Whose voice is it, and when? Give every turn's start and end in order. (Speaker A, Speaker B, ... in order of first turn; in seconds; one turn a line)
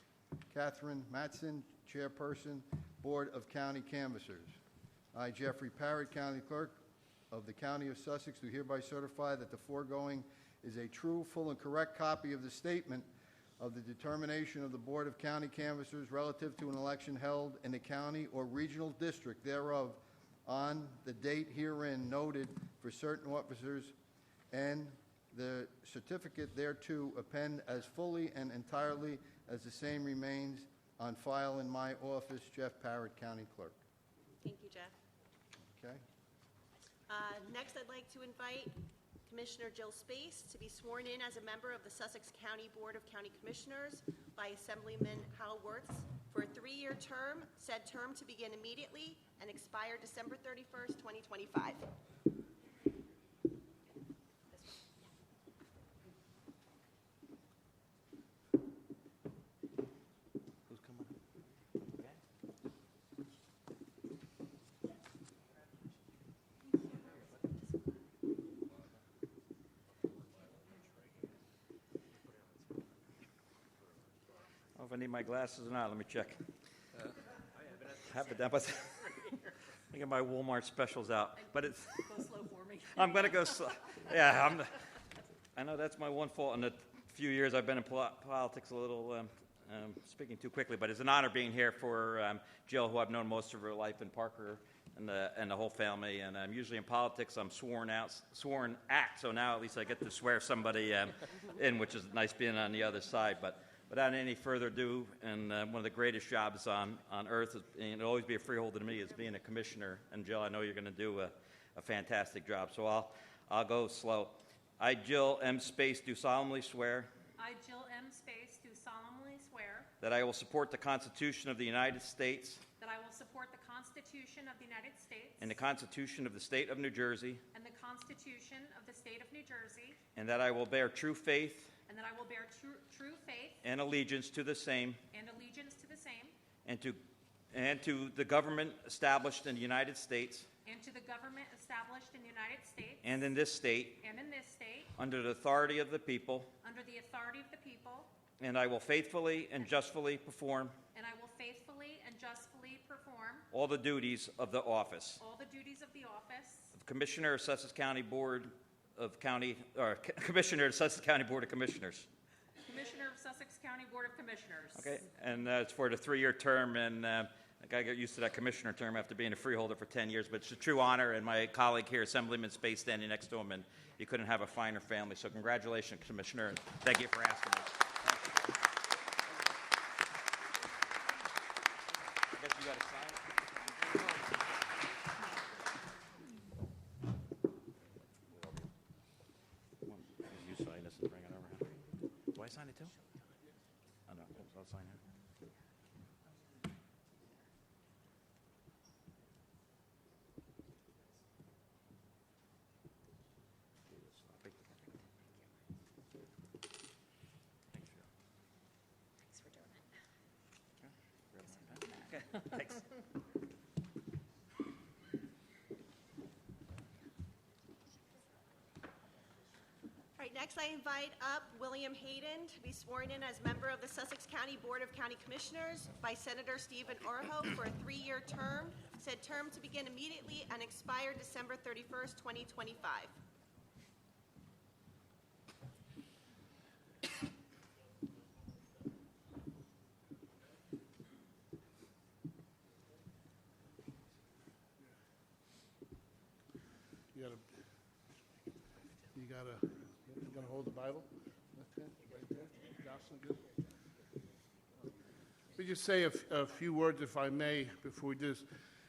Speaker A: 0.5-4.5
Speaker A: 5.1-13.1
Speaker A: 13.6-23.9
Speaker A: 24.5-33.8
Speaker B: 34.4-34.9
Speaker A: 35.8-36.0
Speaker B: 37.1-38.7
Speaker B: 39.3-51.8
Speaker C: 60.7-61.1
Speaker C: 74.8-76.4
Speaker C: 77.9-79.1
Speaker C: 79.9-82.1
Speaker D: 81.4-83.9
Speaker C: 82.9-84.7
Speaker C: 85.5-117.1
Speaker D: 117.4-119.9
Speaker C: 120.0-122.6
Speaker D: 122.8-125.5
Speaker C: 125.4-127.4
Speaker D: 127.5-130.0
Speaker C: 130.2-131.7
Speaker D: 131.9-133.6
Speaker C: 133.6-135.0
Speaker D: 135.1-136.3
Speaker C: 136.7-140.5
Speaker D: 140.7-143.1
Speaker C: 143.0-144.0
Speaker D: 144.0-144.9
Speaker C: 145.0-146.5
Speaker D: 146.6-148.1
Speaker C: 148.4-150.8
Speaker D: 150.9-153.5
Speaker C: 153.5-155.2
Speaker D: 155.2-156.7
Speaker C: 156.8-162.1
Speaker D: 162.7-165.0
Speaker C: 164.8-177.9
Speaker C: 182.3-183.2
Speaker C: 183.8-184.2
Speaker C: 188.3-188.6
Speaker C: 189.8-191.8
Speaker C: 192.3-192.9
Speaker C: 194.1-195.0
Speaker C: 203.9-204.8
Speaker C: 207.7-208.1
Speaker D: 209.3-209.8
Speaker C: 210.8-212.8
Speaker B: 220.2-233.1
Speaker E: 247.1-247.4
Speaker E: 249.1-253.4
Speaker E: 255.6-258.5